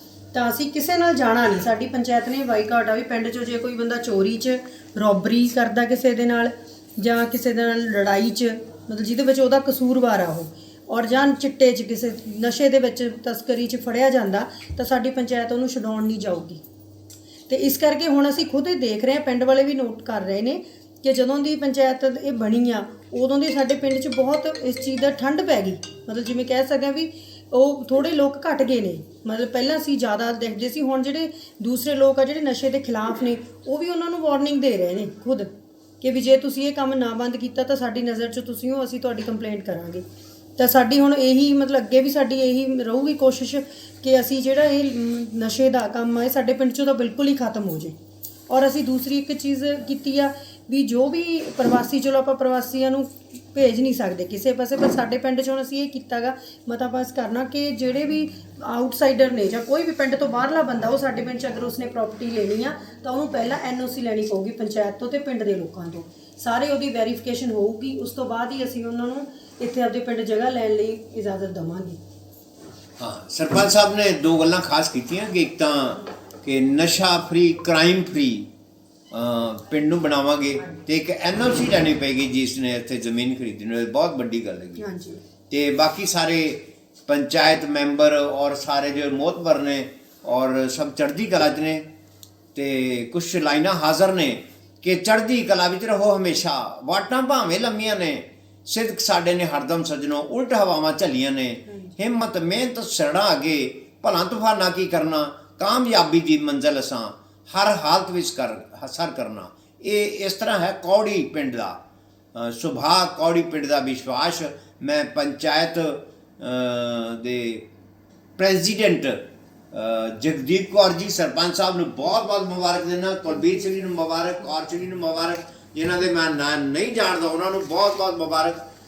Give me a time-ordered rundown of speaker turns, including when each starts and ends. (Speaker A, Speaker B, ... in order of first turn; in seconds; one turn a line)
Speaker A: 0.3-16.6
Speaker A: 17.5-40.0
Speaker A: 40.6-48.0
Speaker A: 48.5-72.0
Speaker B: 73.0-78.5
Speaker B: 79.1-84.8
Speaker A: 84.8-85.2
Speaker B: 85.5-91.9
Speaker B: 92.5-111.8
Speaker A: 101.7-102.0
Speaker B: 112.3-117.7
Speaker B: 118.4-128.6